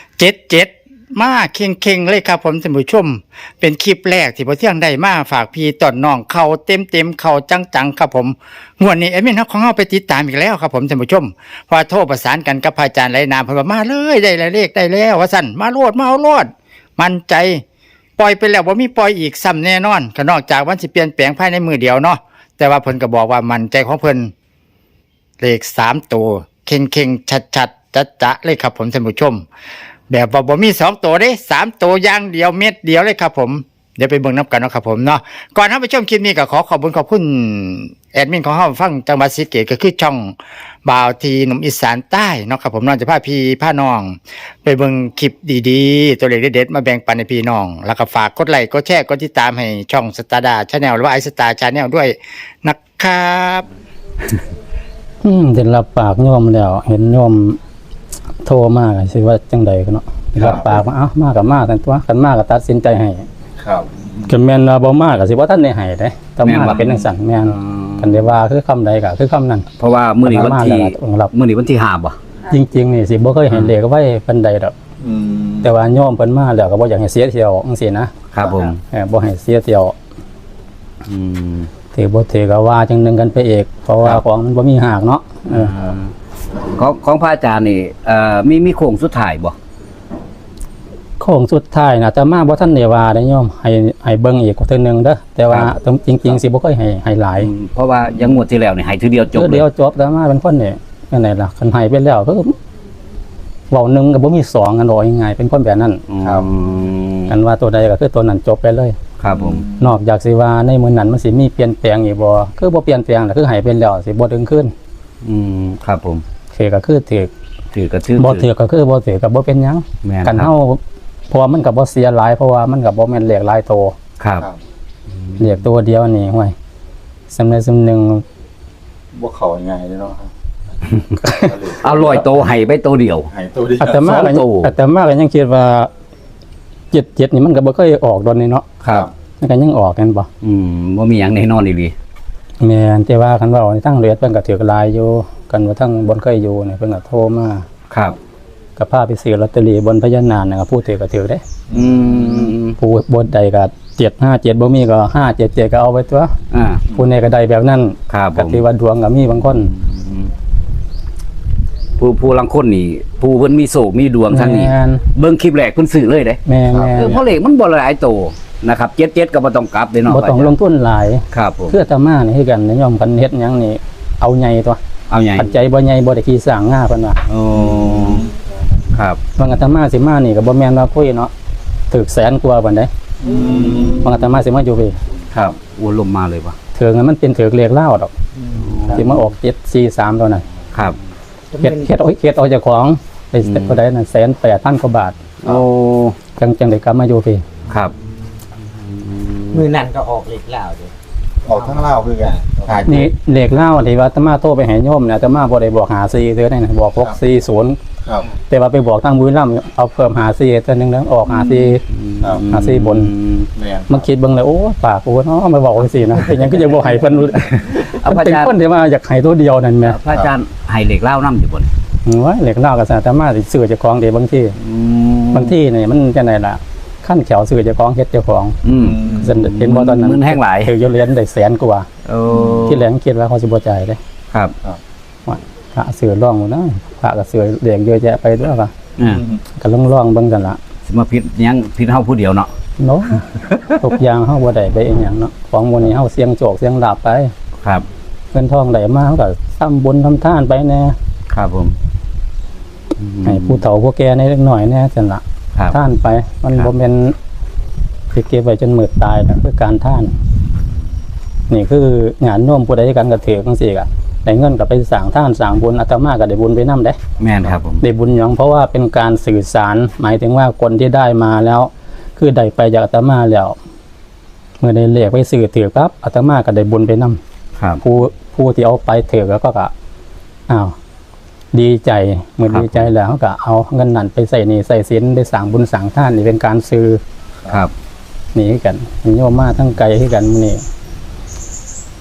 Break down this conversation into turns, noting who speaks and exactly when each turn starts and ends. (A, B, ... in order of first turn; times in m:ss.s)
0:00.2-0:17.6 A
0:18.2-0:24.3 A
0:25.4-0:29.4 A
0:30.1-0:53.7 A
0:55.2-0:57.6 B
0:58.4-1:03.3 B
1:00.4-1:00.8 C
1:03.6-1:04.2 C
1:04.3-1:09.7 B
1:06.4-1:06.8 D
1:06.7-1:07.0 C
1:07.5-1:08.2 D
1:09.8-1:12.2 D
1:10.2-1:11.3 B
1:12.5-1:14.7 B
1:15.0-1:15.7 C
1:15.6-1:18.1 B
1:18.3-1:18.8 D
1:18.4-1:18.7 C
1:18.9-1:19.9 B
1:21.1-1:21.7 D
1:21.9-1:25.7 B
1:25.5-1:26.1 D
1:26.7-1:29.6 D
1:31.2-1:37.5 B
1:35.5-1:35.7 D
1:37.4-1:39.7 D
1:39.4-1:42.6 B
1:43.7-1:46.0 B
1:46.1-1:47.3 D
1:46.2-1:46.5 C
1:47.3-1:49.0 B
1:49.2-1:49.7 D
1:49.3-1:49.9 C
1:49.8-1:54.7 B
1:55.2-1:56.2 D
1:56.5-1:57.3 B
1:57.7-1:58.5 D
1:58.2-2:04.0 B
2:00.0-2:00.5 D
2:04.2-2:04.5 D
2:05.4-2:06.6 B
2:07.3-2:08.2 B
2:09.1-2:10.3 C
2:11.2-2:12.3 C
2:11.2-2:11.5 B
2:11.8-2:13.3 D
2:13.3-2:14.0 C
2:13.8-2:15.9 B
2:13.9-2:14.7 D
2:16.9-2:18.7 B
2:18.8-2:19.1 D
2:19.4-2:20.3 B
2:20.4-2:21.9 D
2:22.6-2:27.7 B
2:27.9-2:28.2 D
2:28.8-2:31.4 B
2:31.7-2:32.4 C
2:31.7-2:32.8 D
2:32.8-2:36.3 B
2:36.5-2:36.9 D
2:36.9-2:39.8 B
2:38.1-2:38.6 D
2:39.7-2:40.3 D
2:42.0-2:46.4 D
2:44.3-2:45.0 B
2:46.4-2:47.2 B
2:46.7-2:47.0 C
2:46.9-2:50.6 D
2:50.1-2:54.8 B
2:51.3-2:51.8 D
2:55.1-2:55.6 D
2:55.4-2:57.2 B
2:57.3-2:58.3 D
2:58.9-2:59.2 D
2:59.4-3:01.3 B
3:01.9-3:02.9 B
3:03.2-3:04.1 C
3:03.8-3:05.0 B
3:05.3-3:06.6 D
3:06.7-3:08.1 B
3:08.4-3:09.1 E
3:08.6-3:09.0 D
3:08.9-3:10.4 B
3:11.5-3:11.9 E
3:11.6-3:15.2 B
3:13.4-3:13.8 D
3:15.4-3:16.2 D
3:16.4-3:17.4 B
3:18.9-3:19.6 D
3:19.5-3:20.9 E
3:21.5-3:23.1 C
3:21.5-3:22.0 E
3:22.9-3:27.8 B
3:28.5-3:31.8 B
3:31.2-3:33.5 D
3:32.2-3:32.5 C
3:32.5-3:33.1 B
3:33.6-3:34.0 C
3:33.9-3:40.0 B
3:37.9-3:38.5 D
3:39.8-3:41.7 D
3:42.0-3:44.6 B
3:44.6-3:45.6 D
3:45.3-3:48.6 B
3:48.6-3:50.7 D
3:48.8-3:49.4 C
3:49.1-3:51.9 B
3:52.0-3:52.9 D
3:52.6-3:54.0 B
3:55.3-3:58.7 B
3:59.0-3:59.2 D
3:59.1-3:59.4 C
3:59.6-4:00.6 B
4:00.9-4:02.5 D
4:02.8-4:07.3 B
4:08.3-4:11.0 B
4:11.3-4:11.8 D
4:13.0-4:13.6 D
4:13.2-4:17.2 B
4:18.1-4:20.1 B
4:21.5-4:27.0 B
4:27.2-4:27.8 D
4:27.8-4:33.6 B
4:34.6-4:37.2 B
4:37.8-4:39.7 B
4:40.5-4:40.7 B
4:41.5-4:47.0 B
4:42.5-4:42.9 D
4:48.3-4:50.6 B